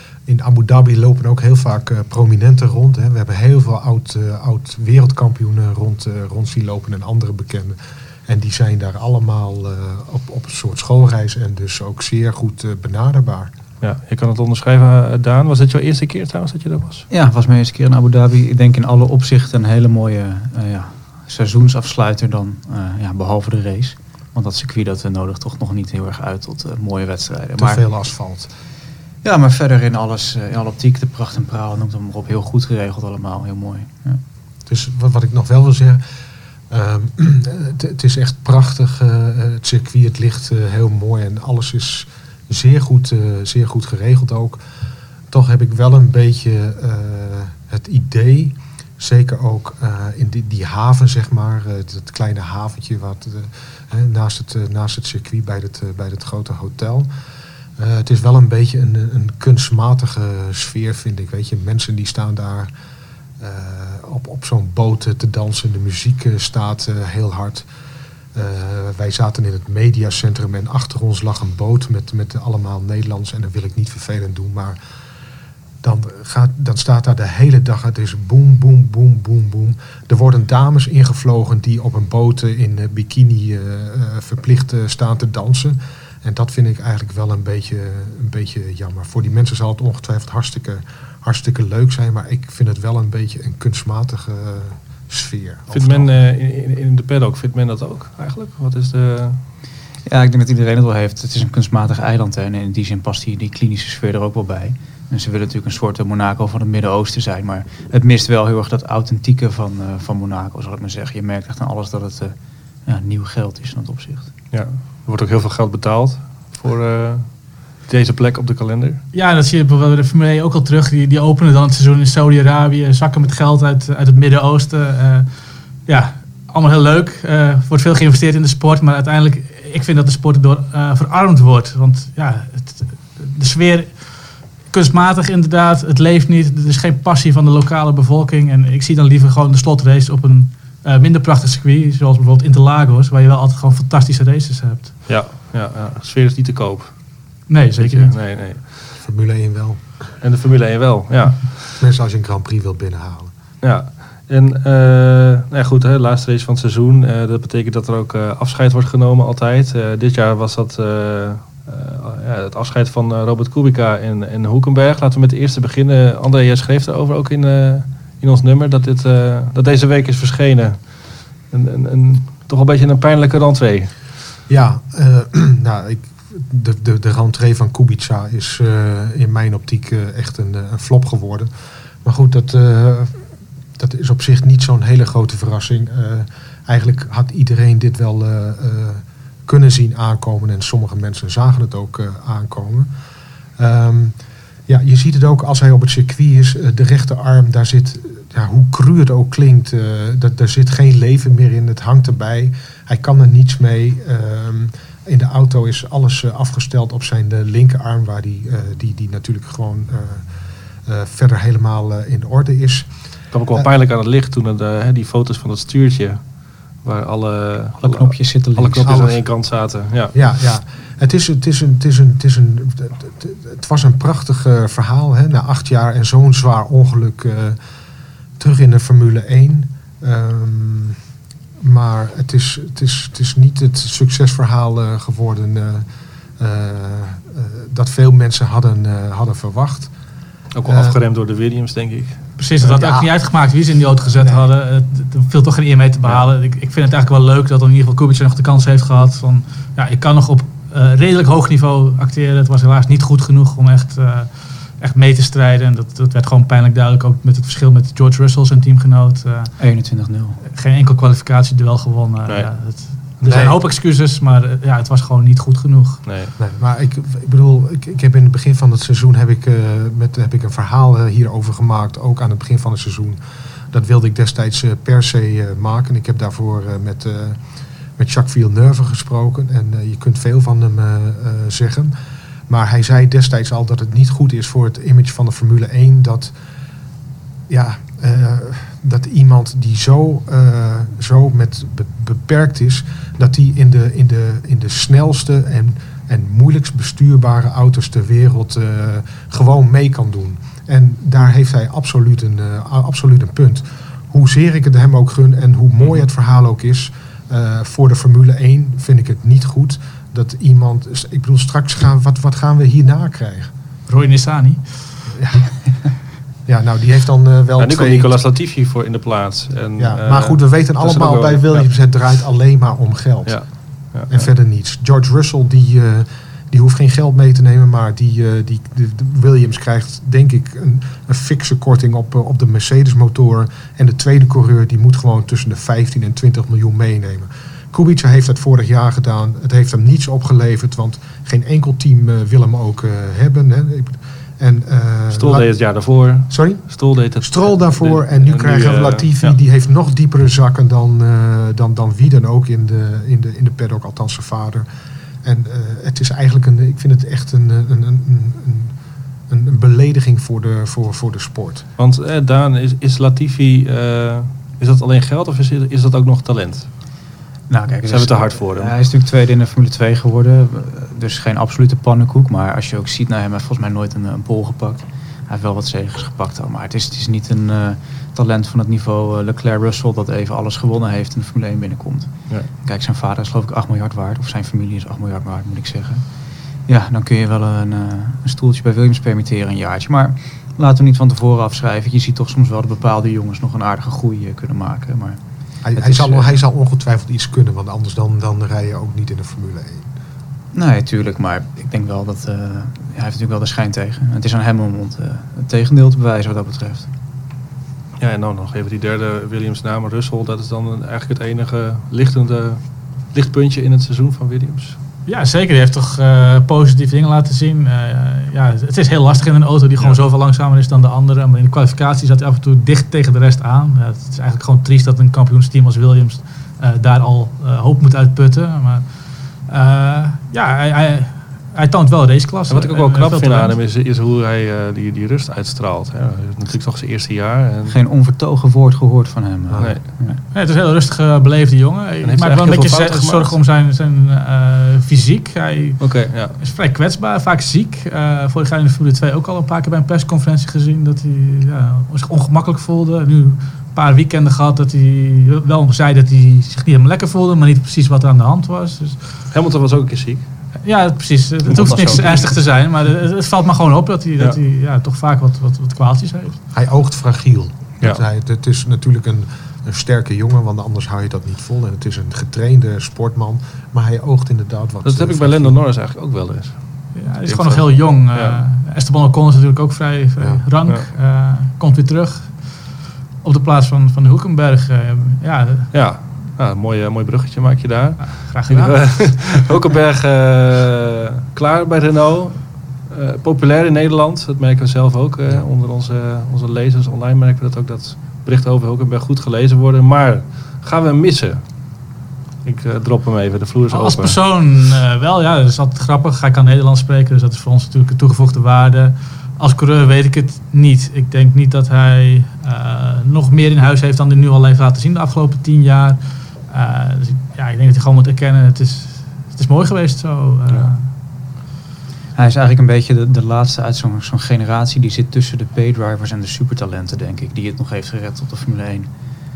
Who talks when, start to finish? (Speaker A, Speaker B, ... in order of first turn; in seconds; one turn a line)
Speaker A: 0.2-13.5
Speaker B: 13.8-17.1
Speaker C: 17.1-27.8
Speaker A: 27.6-28.5
Speaker C: 29.2-34.2
Speaker A: 34.7-36.0
Speaker A: 36.7-44.6
Speaker A: 45.3-57.1
Speaker A: 57.8-62.7
Speaker A: 63.4-67.7
Speaker A: 68.3-74.8
Speaker A: 75.8-96.2
Speaker B: 95.7-99.4
Speaker C: 100.0-112.3
Speaker C: 112.8-114.3
Speaker B: 114.5-119.0
Speaker D: 119.1-125.3
Speaker D: 125.8-144.9
Speaker B: 145.1-147.2
Speaker D: 147.5-148.1
Speaker B: 147.8-148.8
Speaker A: 149.0-149.8
Speaker B: 150.2-151.8
Speaker A: 151.8-153.3
Speaker B: 153.6-173.9
Speaker A: 174.5-181.5
Speaker A: 182.0-183.2
Speaker A: 183.8-192.9
Speaker A: 193.6-194.2
Speaker A: 194.7-210.3
Speaker A: 210.8-212.9
Speaker B: 213.3-220.2
Speaker C: 217.8-219.0
Speaker A: 218.8-227.6
Speaker A: 228.4-231.0
Speaker A: 231.6-235.9
Speaker A: 236.4-239.9
Speaker B: 240.5-242.3
Speaker A: 240.7-241.0
Speaker D: 242.4-259.6
Speaker A: 242.6-243.1
Speaker A: 244.1-244.4
Speaker C: 259.6-260.4
Speaker D: 260.4-266.0
Speaker B: 262.3-263.5
Speaker A: 263.3-263.6
Speaker B: 266.0-266.3
Speaker A: 266.4-273.2
Speaker A: 273.7-277.4
Speaker A: 278.0-281.9
Speaker A: 282.5-286.3
Speaker A: 287.5-313.5
Speaker D: 313.9-315.0
Speaker A: 315.1-315.5
Speaker A: 316.4-318.1
Speaker B: 317.6-321.7
Speaker A: 319.8-323.4
Speaker B: 323.2-324.3
Speaker A: 324.1-354.6
Speaker B: 345.1-349.4
Speaker A: 355.2-358.7
Speaker A: 359.3-361.6
Speaker B: 361.8-366.7
Speaker C: 367.5-386.1
Speaker B: 367.8-368.7
Speaker C: 386.6-395.2
Speaker A: 395.6-399.9
Speaker C: 395.8-396.4
Speaker C: 400.5-406.9
Speaker B: 408.0-414.8
Speaker D: 415.1-433.6
Speaker B: 432.5-437.8
Speaker C: 437.7-440.2
Speaker A: 439.5-439.8
Speaker D: 440.3-459.0
Speaker B: 442.0-443.4
Speaker B: 445.8-446.4
Speaker B: 459.3-460.3
Speaker D: 460.6-466.4
Speaker B: 461.5-462.4
Speaker A: 466.5-475.6
Speaker B: 474.8-476.6
Speaker D: 476.9-482.7
Speaker B: 477.2-478.4
Speaker A: 480.2-480.4
Speaker D: 483.2-485.7
Speaker B: 485.7-501.6
Speaker D: 488.0-489.4
Speaker B: 502.4-504.1
Speaker D: 503.7-520.9
Speaker C: 522.1-528.9